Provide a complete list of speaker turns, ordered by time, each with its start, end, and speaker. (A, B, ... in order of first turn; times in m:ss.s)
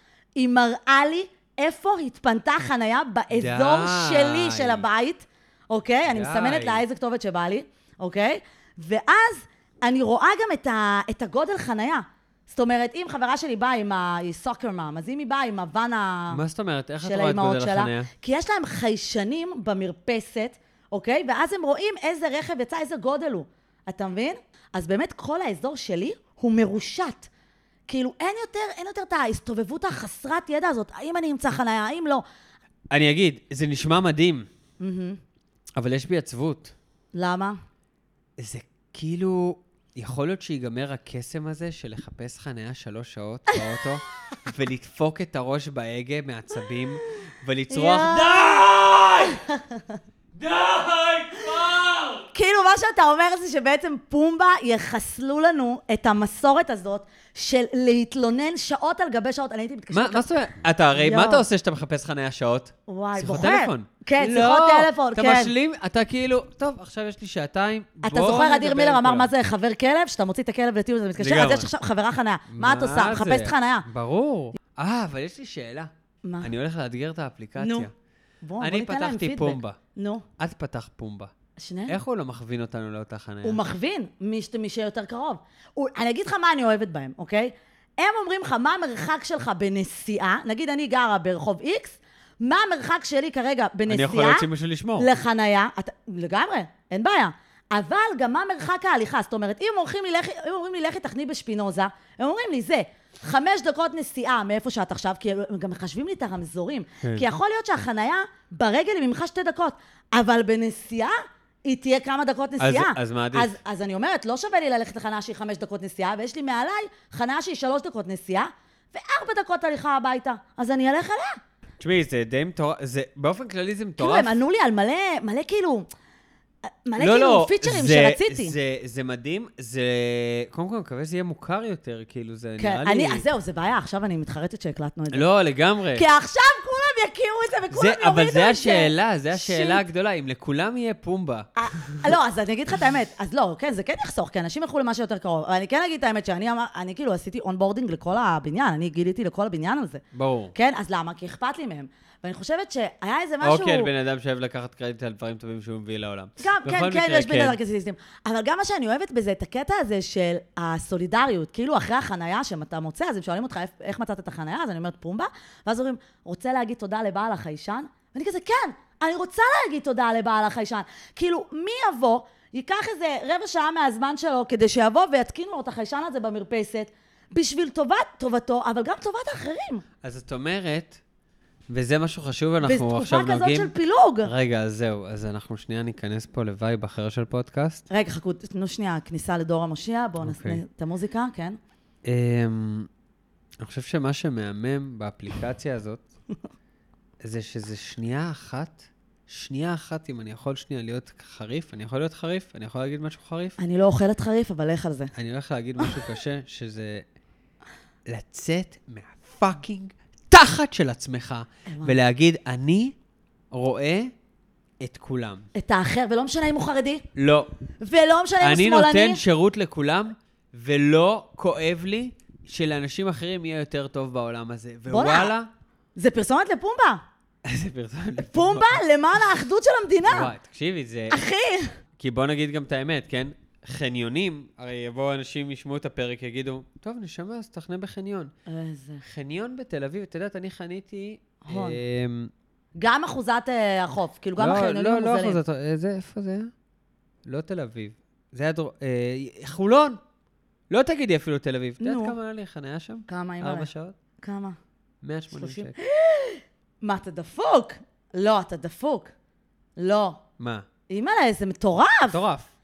0:00.4-0:16.4 A
0:03.3-0:04.8 B
0:06.1-0:06.8 B
0:16.3-0:18.1 B
0:17.0-0:27.3 A
0:27.9-0:32.2 A
0:32.9-0:34.5 B
0:34.8-0:35.2 A
0:35.8-0:36.7 B
0:37.1-0:37.6 A
0:38.4-0:49.4 B
0:47.7-0:48.6 A
0:49.2-0:50.0 A
0:50.4-0:52.3 B
0:52.3-1:00.3 A
0:59.9-1:09.3 B
1:01.0-1:01.4 A
1:02.9-1:05.5 A
1:08.0-1:13.9 A
1:11.2-1:11.7 B
1:12.5-1:15.9 B
1:16.2-1:16.5 A
1:16.4-1:17.9 B
1:17.6-1:17.9 A
1:18.4-1:20.3 A
1:18.6-1:19.8 B
1:20.4-1:21.3 B
1:21.6-1:22.0 A
1:21.9-1:23.6 B
1:23.4-1:34.5 A
1:33.9-1:35.1 B
1:35.0-2:01.4 A
1:52.6-1:53.6 B
2:01.8-2:04.4 B
2:04.0-2:05.9 A
2:06.7-2:08.6 A
2:07.0-2:13.2 B
2:12.6-2:15.3 A
2:15.1-2:16.0 B
2:16.0-2:19.8 A
2:17.7-2:21.5 B
2:21.6-2:30.0 A
2:30.1-2:30.5 B
2:30.5-2:33.9 A
2:33.4-2:37.6 B
2:36.4-2:59.8 A
3:00.0-3:01.0 B
3:01.7-3:07.8 B
3:02.6-3:04.3 A
3:07.9-3:11.6 A
3:10.2-3:10.6 B
3:12.0-3:12.9 B
3:13.6-3:16.0 B
3:17.2-3:23.6 B
3:23.6-3:25.1 A
3:25.2-3:27.0 B
3:28.1-3:32.9 B
3:31.7-3:32.0 A
3:33.5-3:34.1 B
3:34.8-3:35.5 B
3:35.6-3:37.0 A
3:37.2-3:37.5 B
3:37.8-3:39.2 A
3:38.4-3:45.5 B
3:44.9-3:45.3 A
3:46.0-3:47.0 A
3:47.4-3:48.8 B
3:48.2-3:50.3 A
3:50.1-3:51.2 B
3:51.1-3:51.8 A
3:52.0-3:58.3 B
3:58.5-3:59.0 A
3:59.0-4:02.3 B
4:01.4-4:01.8 A
4:02.8-4:05.4 A
4:04.4-4:06.5 B
4:07.2-4:10.0 B
4:10.7-4:14.0 B
4:11.8-4:12.2 A
4:13.1-4:13.7 A
4:14.2-4:14.6 A
4:15.0-4:15.8 B
4:15.3-4:19.1 A
4:19.8-4:20.2 A
4:20.4-4:20.7 B
4:20.9-4:22.2 A
4:22.1-4:22.5 B